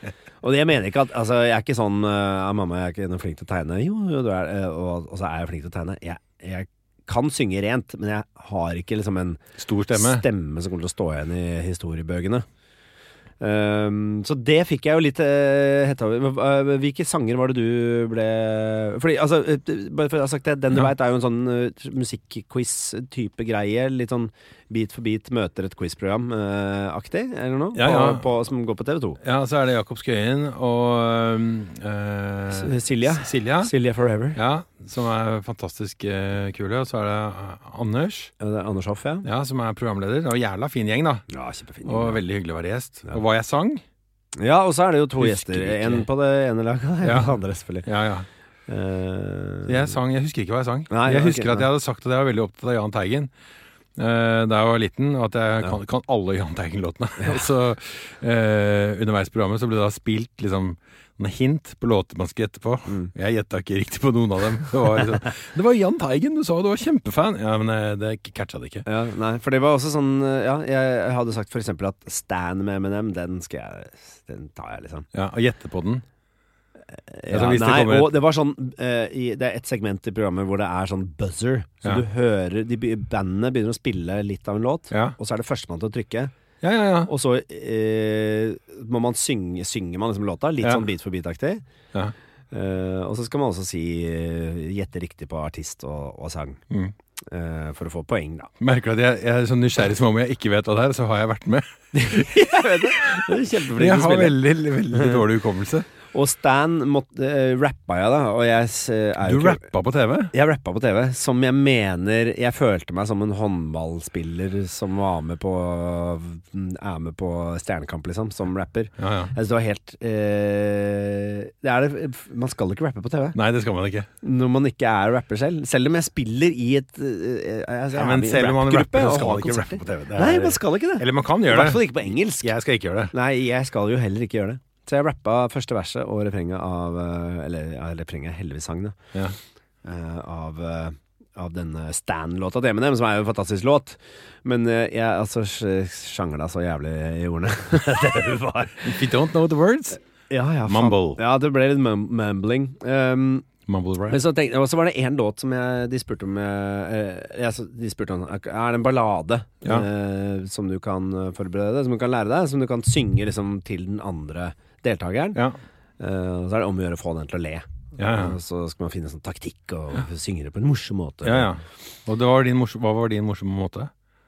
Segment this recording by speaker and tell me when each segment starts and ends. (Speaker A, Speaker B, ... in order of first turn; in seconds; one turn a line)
Speaker A: 0.4-12.4
Speaker B: 9.6-10.2
Speaker A: 13.4-29.2
Speaker B: 27.7-28.3
Speaker B: 29.2-33.7
Speaker A: 32.5-34.4
Speaker B: 34.3-38.3
Speaker A: 38.4-39.2
Speaker B: 39.2-41.2
Speaker A: 41.3-42.2
Speaker B: 41.8-43.8
Speaker A: 44.4-47.9
Speaker B: 45.2-46.1
Speaker B: 47.0-47.3
Speaker B: 47.8-48.3
Speaker A: 48.7-49.9
Speaker B: 49.6-53.3
Speaker A: 50.9-51.6
Speaker B: 54.0-68.8
Speaker A: 62.9-63.1
Speaker A: 68.8-75.1
Speaker B: 75.1-76.0
Speaker A: 77.1-86.3
Speaker B: 77.3-78.2
Speaker B: 84.9-85.2
Speaker B: 86.6-87.1
Speaker A: 87.1-91.6
Speaker A: 92.5-96.6
Speaker A: 97.3-98.5
Speaker B: 98.6-105.9
Speaker A: 101.9-104.4
Speaker A: 104.9-105.2
Speaker A: 106.1-109.6
Speaker B: 109.2-110.3
Speaker A: 110.3-123.4
Speaker B: 119.0-119.3
Speaker B: 123.3-124.1
Speaker A: 124.2-132.5
Speaker B: 127.9-131.9
Speaker B: 132.4-133.1
Speaker A: 133.1-139.0
Speaker A: 139.8-149.0
Speaker B: 148.8-150.0
Speaker A: 150.3-153.5
Speaker B: 150.7-151.2
Speaker B: 153.7-154.2
Speaker A: 154.1-165.4
Speaker A: 166.0-171.5
Speaker B: 168.0-168.4
Speaker B: 171.2-173.9